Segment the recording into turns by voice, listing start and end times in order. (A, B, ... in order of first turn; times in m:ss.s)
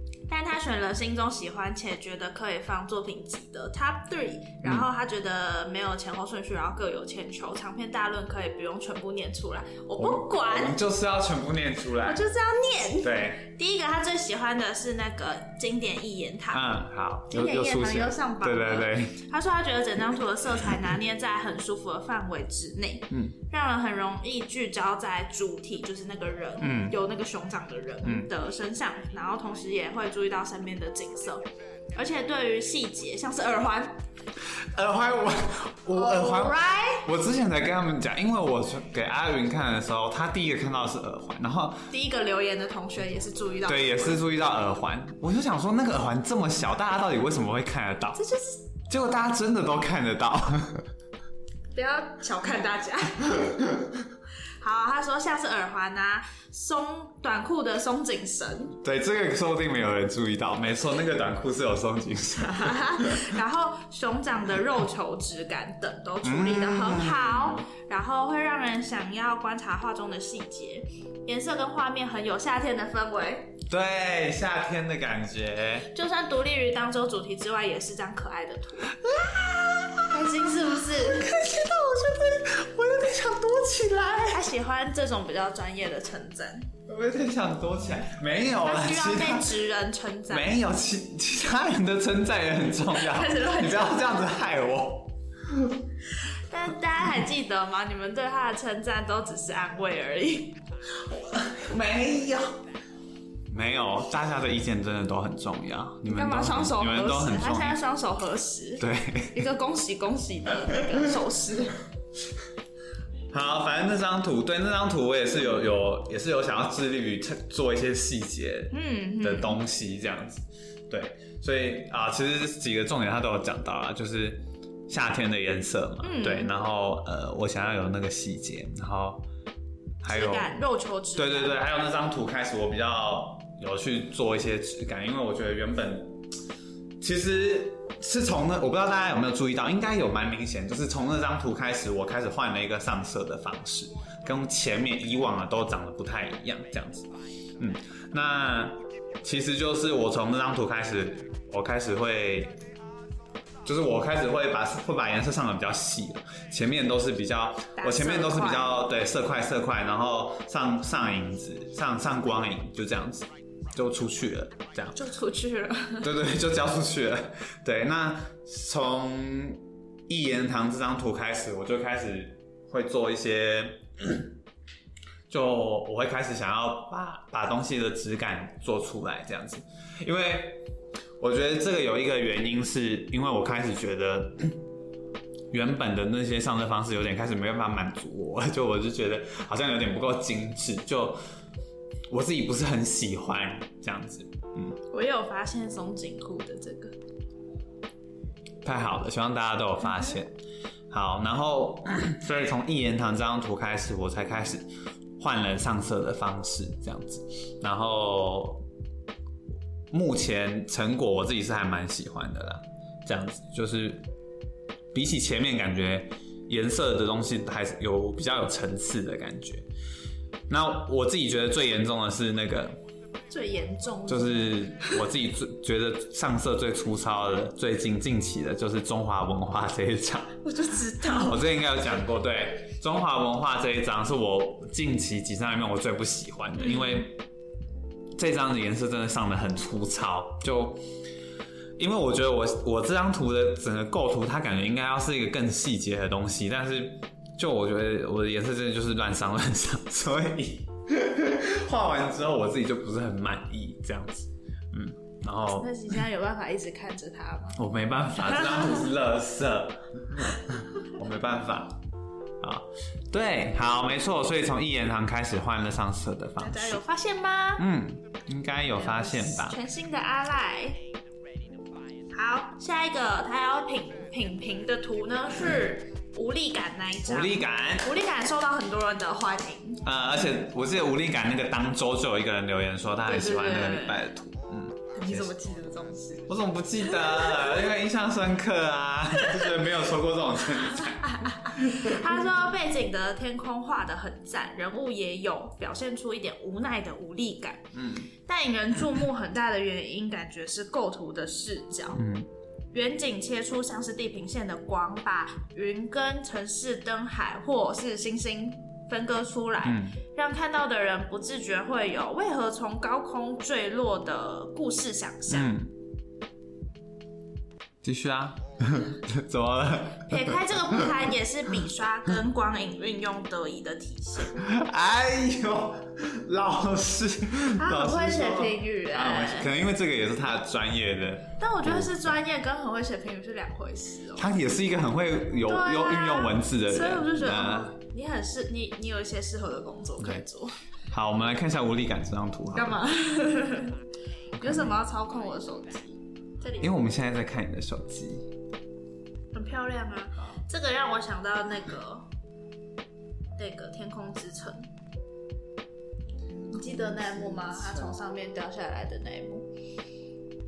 0:00.3-0:10.8 A
0:10.0-0:12.2 B
0:12.0-0:16.8 A
0:13.0-0:13.4 B
0:16.5-0:19.2 B
0:17.3-0:31.4 A
0:26.6-0:27.0 B
0:28.0-0:28.3 B
0:31.9-0:34.0 A
0:34.7-0:41.8 B
0:35.9-0:37.1 A
0:41.9-0:44.2 A
0:43.6-0:48.2 B
0:48.2-0:48.6 A
0:48.9-0:50.9 B
0:51.7-0:53.6 A
0:54.6-0:58.8 A
0:58.8-1:03.3 B
1:02.4-1:13.6 A
1:06.2-1:07.6 B
1:13.7-1:15.9 B
1:15.9-1:19.1 A
1:19.0-1:24.4 B
1:20.0-1:21.3 A
1:24.3-1:26.7 A
1:26.9-1:29.5 B
1:28.6-1:30.5 A
1:30.3-1:35.8 B
1:32.9-1:34.1 A
1:36.5-1:40.6 A
1:41.2-1:42.6 B
1:43.5-1:47.8 B
1:46.1-1:51.8 A
1:48.8-1:49.4 B
1:53.3-2:09.2 B
1:58.7-1:59.6 A
2:06.0-2:06.5 A
2:10.0-2:10.6 B
2:10.0-2:11.6 A
2:11.2-2:16.2 B
2:17.0-2:32.6 B
2:33.6-2:45.0 B
2:37.8-2:38.8 A
2:44.9-2:46.1 A
2:46.0-2:54.3 B
2:55.3-3:00.7 B
3:01.2-3:04.6 B
3:05.5-3:11.2 B
3:12.1-3:14.8 B
3:14.9-3:16.9 A
3:18.6-3:20.4 B
3:20.9-3:24.7 B
3:25.2-3:28.6 B
3:29.9-3:34.0 B
3:34.9-3:39.6 B
3:40.5-3:42.8 B
3:43.3-3:45.0 A
3:44.1-3:50.4 B
3:50.4-3:51.4 A
3:51.0-3:57.2 B
3:56.6-3:57.0 A
3:58.2-4:00.8 B
4:01.8-4:16.0 B
4:15.5-4:17.6 A
4:17.6-4:21.8 B
4:22.4-4:26.8 B
4:26.4-4:27.6 A
4:27.6-4:29.6 B
4:28.7-4:30.8 A
4:32.1-4:39.8 A
4:37.0-4:37.9 B
4:39.8-4:45.3 B
4:43.0-4:44.0 A
4:44.9-4:46.3 A
4:46.3-4:52.0 B
4:46.8-4:47.6 A
4:49.2-4:49.5 A
4:50.8-4:57.7 A
4:57.7-4:58.1 B
4:58.2-5:02.0 A
5:01.9-5:02.3 B
5:02.7-5:15.5 A
5:09.6-5:10.0 B
5:15.3-5:15.7 B
5:17.8-5:21.0 B
5:20.1-5:24.4 A
5:24.4-5:32.1 B
5:27.6-5:29.5 A
5:31.4-5:34.3 A
5:34.2-5:37.7 B
5:35.4-5:40.6 A
5:40.0-5:40.2 B
5:40.9-5:42.8 B
5:42.5-5:43.8 A
5:44.4-5:44.8 B
5:44.4-5:46.8 A
5:46.6-5:48.3 B
5:49.3-5:52.0 A
5:53.4-5:54.7 A
5:56.5-5:58.0 B
5:56.5-5:59.5 A